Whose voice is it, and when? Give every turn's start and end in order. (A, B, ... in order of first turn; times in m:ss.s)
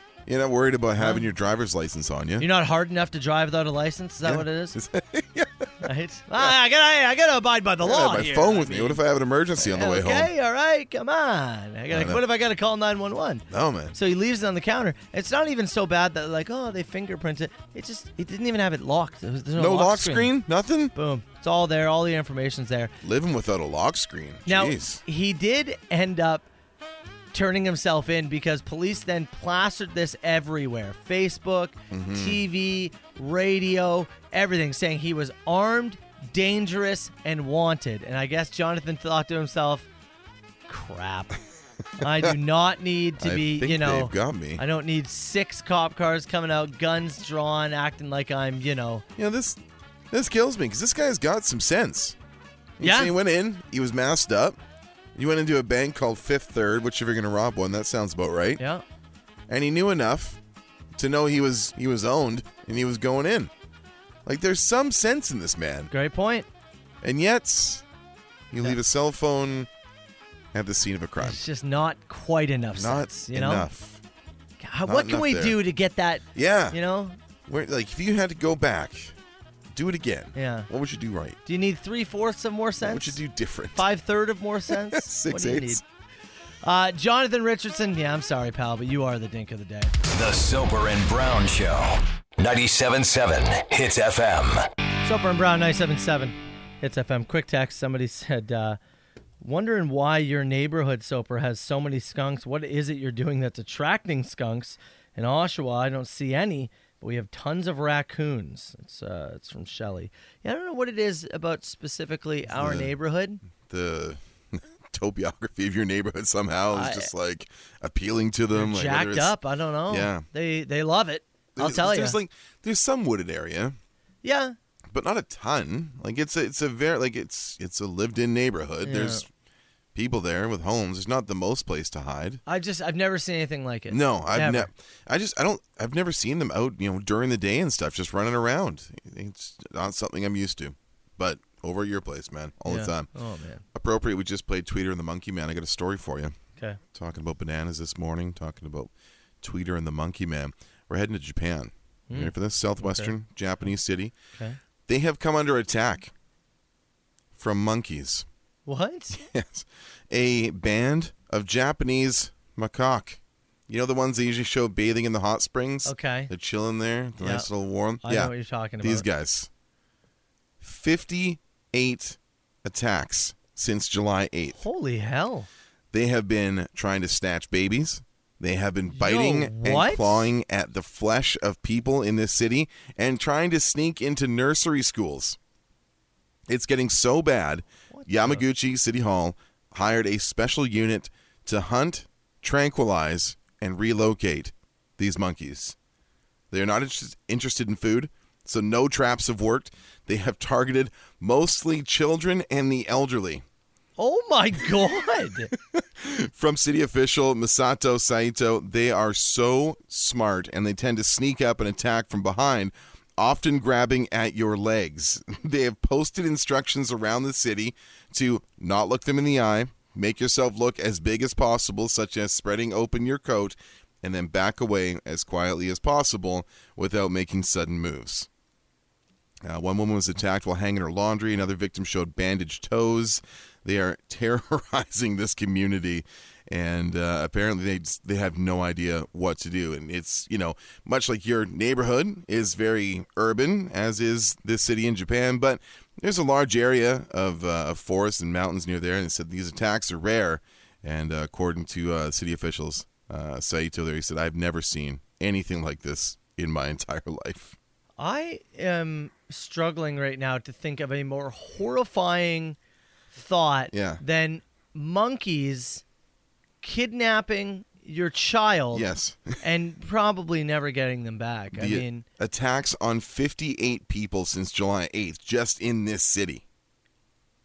0:00.3-0:02.5 A
0:01.0-0:01.3 B
0:02.4-0:04.8 B
0:04.2-0:05.7 A
0:05.8-0:09.0 B
0:07.8-0:10.3 A
0:09.6-0:20.4 B
0:11.9-0:12.2 A
0:13.5-0:14.0 A
0:19.6-0:20.9 A
0:20.9-0:22.9 B
0:23.0-0:25.0 A
0:24.5-0:26.5 B
0:27.3-0:39.9 B
0:31.9-0:32.4 A
0:40.7-0:41.4 B
0:42.0-0:49.0 B
0:42.0-0:42.4 A
0:43.2-0:44.6 A
0:49.2-0:52.2 A
0:52.8-0:54.6 A
0:52.8-0:53.1 B
0:55.2-0:58.6 A
0:59.5-1:00.4 A
1:01.0-1:03.5 A
1:04.2-1:05.9 A
1:05.9-1:06.5 B
1:07.0-1:07.8 A
1:08.5-1:09.7 A
1:10.5-1:11.4 A
1:11.2-1:13.7 B
1:12.8-1:14.0 A
1:14.6-1:17.2 B
1:14.8-1:15.6 A
1:16.3-1:16.8 A
1:17.5-1:19.2 A
1:19.7-1:21.4 A
1:20.4-1:20.7 B
1:21.5-1:23.2 B
1:22.8-1:23.8 A
1:23.7-1:25.8 B
1:24.7-1:25.8 A
1:26.6-1:29.9 B
1:30.1-1:34.6 C
1:35.0-1:38.8 B
1:39.4-1:53.4 B
1:52.5-1:52.9 A
1:53.5-1:59.4 A
1:56.7-1:57.1 B
1:58.5-2:02.2 B
1:59.9-2:00.3 A
2:01.6-2:03.8 A
2:04.2-2:04.6 B
2:04.9-2:09.3 A
2:08.8-2:09.2 B
2:10.0-2:12.4 A
2:12.5-2:14.7 B
2:13.9-2:23.1 A
2:22.7-2:23.6 B
2:23.7-2:26.4 A
2:26.9-2:34.1 A
2:32.1-2:33.1 B
2:34.9-2:36.1 A
2:37.4-2:38.3 A
2:38.7-2:39.2 B
2:39.2-2:49.5 A
2:45.8-2:46.3 B
2:47.2-2:47.5 B
2:48.0-2:49.0 B
2:50.6-2:54.6 A
2:54.6-2:55.5 B
2:55.9-3:05.4 A
2:58.9-3:00.3 B
3:06.5-3:15.8 A
3:07.9-3:08.4 B
3:16.5-3:23.4 A
3:24.0-3:25.5 B
3:25.6-3:48.3 A
3:49.4-4:17.6 A
4:18.0-4:22.6 B
4:23.1-4:25.8 B
4:23.7-4:24.0 A
4:26.6-4:28.9 B
4:28.7-4:29.4 A
4:29.4-4:32.0 B
4:31.5-4:36.4 A